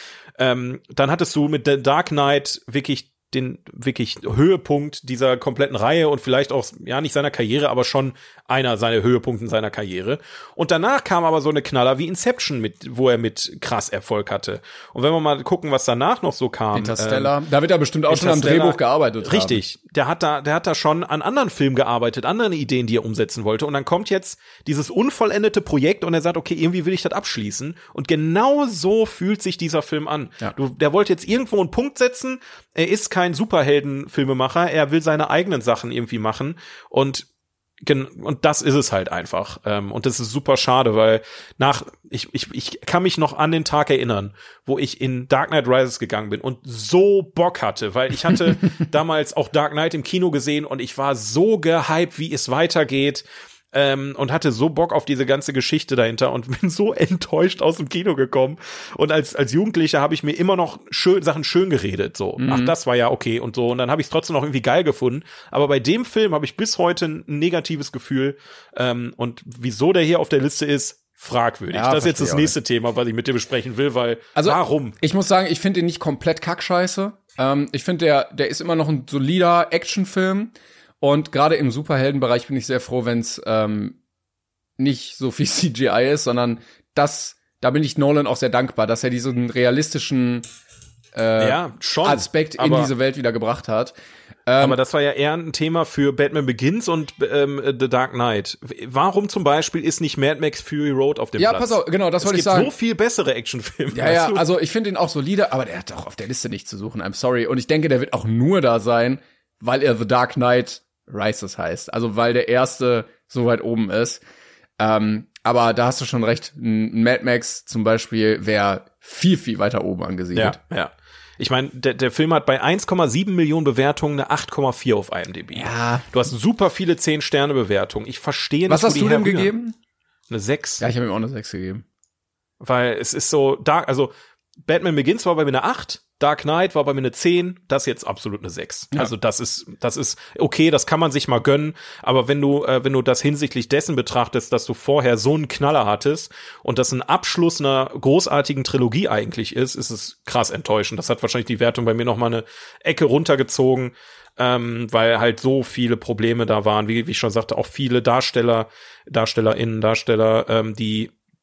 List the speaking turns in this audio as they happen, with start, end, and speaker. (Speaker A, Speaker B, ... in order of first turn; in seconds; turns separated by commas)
Speaker A: 0.4-17.3, Speaker B: 16.7-19.6, Speaker A: 18.1-37.2, Speaker A: 37.8-75.0, Speaker B: 62.4-62.7, Speaker B: 71.7-72.5, Speaker B: 74.3-84.0, Speaker B: 84.8-90.5, Speaker B: 91.1-93.9, Speaker A: 91.4-92.9, Speaker B: 94.5-94.8, Speaker A: 94.6-104.4, Speaker B: 101.4-102.7, Speaker B: 103.9-114.2, Speaker B: 114.8-120.6, Speaker A: 120.3-129.5, Speaker B: 125.5-126.1, Speaker B: 128.7-129.7, Speaker A: 130.3-130.8, Speaker B: 130.8-131.8, Speaker A: 132.6-134.1, Speaker A: 134.6-161.1